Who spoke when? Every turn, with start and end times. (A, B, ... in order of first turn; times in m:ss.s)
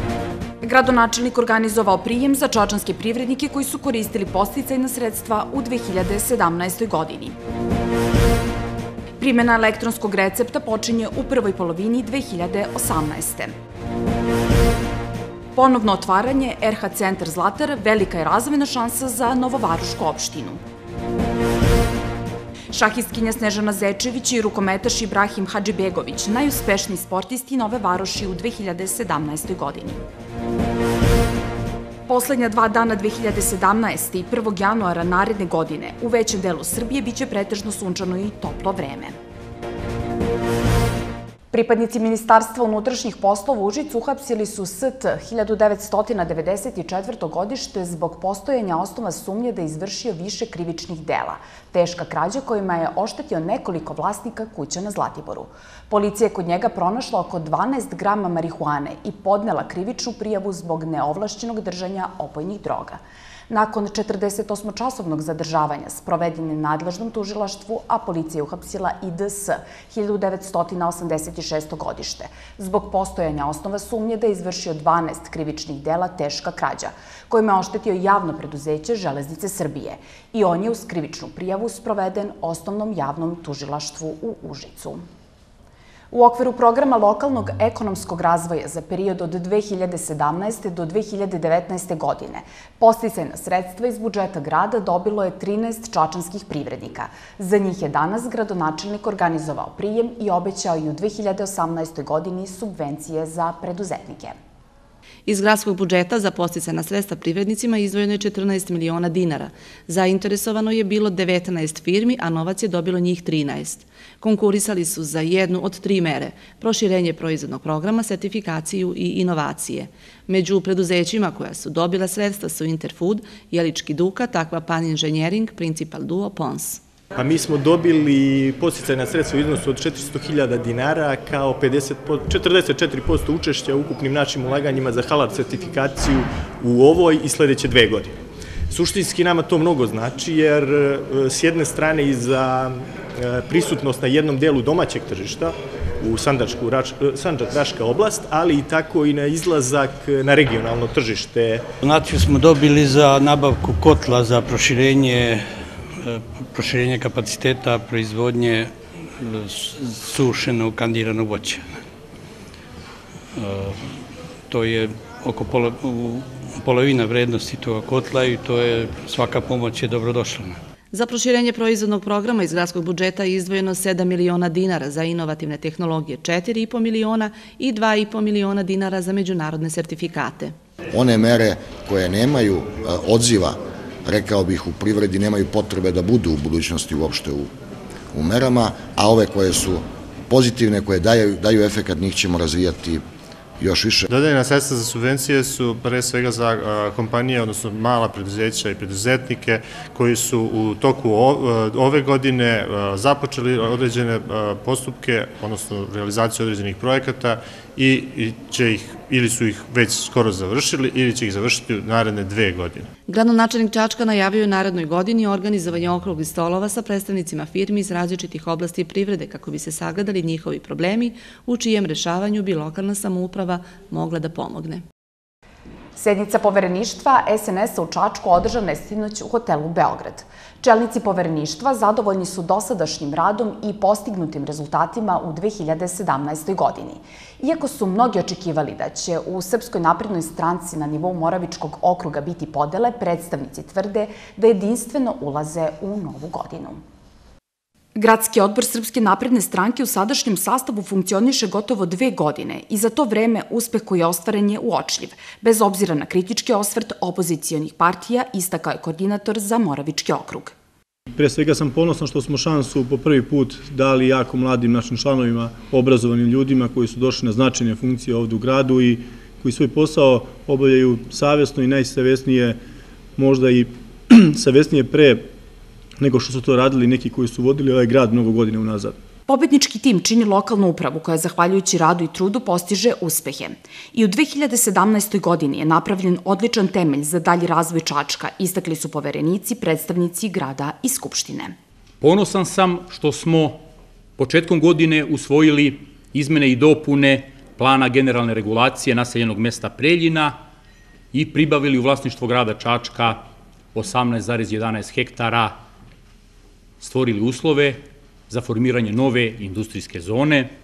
0:00.6-0:07.4 A
0:09.2-0:13.5 A
0:15.5-0:20.6 A
0:22.7-0:30.0 A
0:32.1-0:39.2 A
0:41.5-1:25.0 A
1:26.1-1:44.4 A
1:45.3-2:06.8 B
2:07.1-2:18.2 C
2:18.7-2:31.6 C
2:31.8-2:41.8 D
2:43.4-2:50.6 D
2:50.9-3:00.5 B
3:00.9-3:07.5 E
3:08.1-3:13.0 E
3:13.6-3:14.1 E
3:14.1-3:32.8 F
3:33.1-3:44.8 B
3:46.0-4:06.8 A
4:08.0-4:20.5 A
4:21.1-4:32.6 G
4:33.2-4:35.3 G
4:36.0-4:39.0 G
4:39.3-4:51.6 A
4:52.0-4:53.6 H
4:54.2-5:00.4 H
5:01.1-5:05.6 H
5:06.8-5:10.5 H